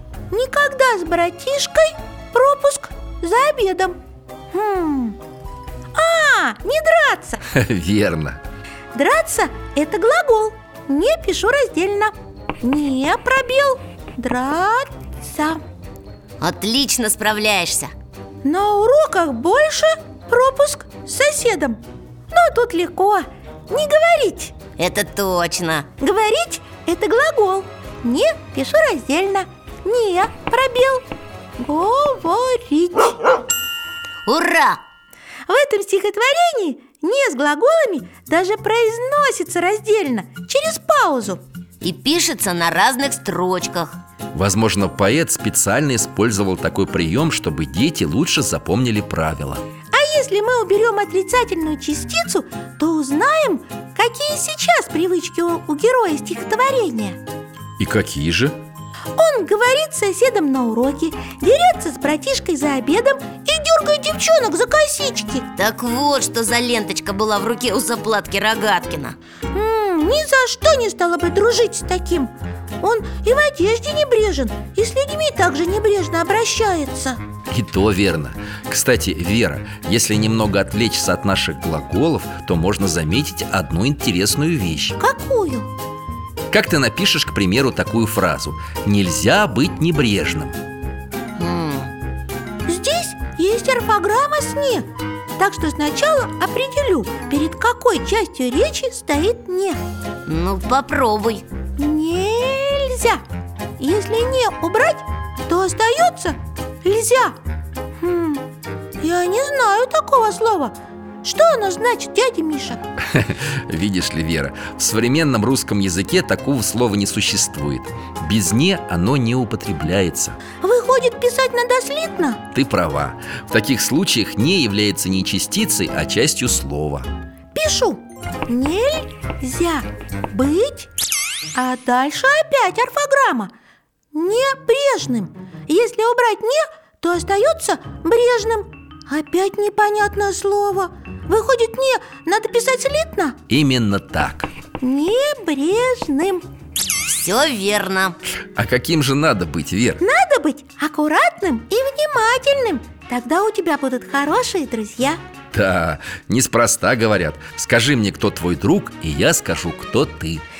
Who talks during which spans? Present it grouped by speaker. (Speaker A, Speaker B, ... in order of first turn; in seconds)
Speaker A: 0.3-4.0, 4.5-5.2, 5.9-7.4, 8.9-15.6, 18.4-21.8, 22.3-24.6, 26.0-31.0, 31.6-33.3, 35.5-41.4, 49.9-57.2, 59.1-65.5, 69.5-77.2, 85.0-85.7, 92.7-94.9, 95.4-99.8, 101.8-103.2, 103.8-107.4, 108.0-108.4, 109.0-112.8, 120.6-122.4, 127.5-130.9, 131.5-133.5, 134.1-143.3, 144.8-146.4, 150.0-155.2
Speaker B: 7.5-8.4, 44.3-49.6, 57.8-58.6, 77.5-85.0, 86.5-90.5, 113.1-120.4, 122.5-127.1, 143.5-144.5, 148.6-150.0, 155.5-160.4
Speaker C: 16.4-17.9, 24.8-25.9, 34.2-34.8, 41.8-43.9, 65.5-69.2, 91.4-91.9, 100.2-101.4, 147.0-148.2